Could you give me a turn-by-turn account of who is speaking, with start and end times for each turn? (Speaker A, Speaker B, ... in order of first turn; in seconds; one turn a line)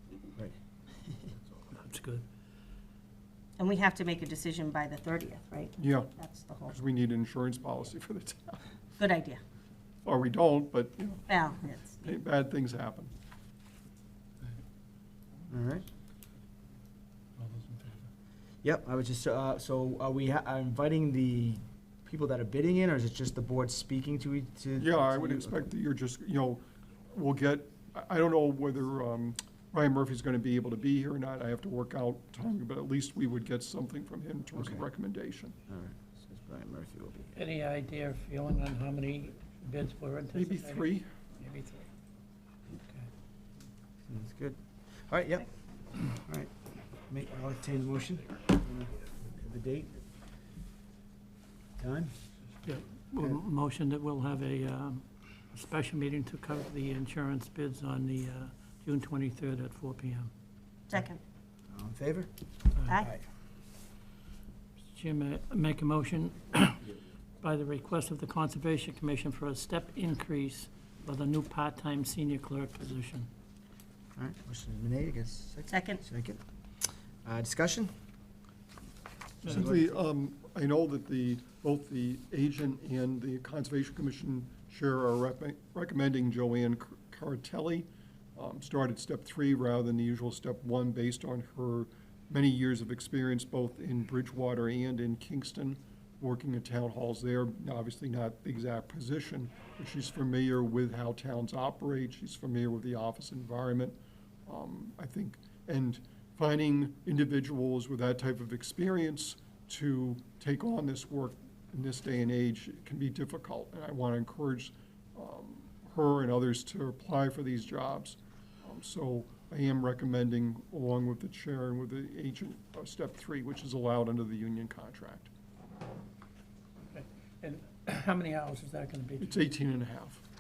Speaker A: 1.7-2.3
Speaker B: 3.6-6.8
Speaker C: 5.8-6.1
Speaker C: 6.7-8.7
Speaker B: 9.0-9.4
Speaker C: 10.1-13.1
Speaker B: 11.3-12.1
Speaker D: 15.5-15.8
Speaker A: 17.4-18.1
Speaker D: 18.6-25.7
Speaker C: 24.8-35.6
Speaker D: 34.6-34.8
Speaker D: 35.7-37.4
Speaker A: 37.4-41.9
Speaker C: 40.3-41.1
Speaker D: 44.1-45.5
Speaker D: 46.1-46.5
Speaker D: 47.1-50.0
Speaker D: 51.8-52.1
Speaker A: 52.6-60.3
Speaker B: 60.9-61.2
Speaker D: 61.7-62.3
Speaker B: 62.9-63.1
Speaker A: 64.9-66.8
Speaker A: 67.4-73.3
Speaker D: 74.2-76.4
Speaker B: 75.7-76.0
Speaker D: 77.2-77.9
Speaker A: 79.4-79.7
Speaker D: 79.4-80.0
Speaker C: 79.4-125.3
Speaker A: 126.9-129.4
Speaker C: 129.2-130.2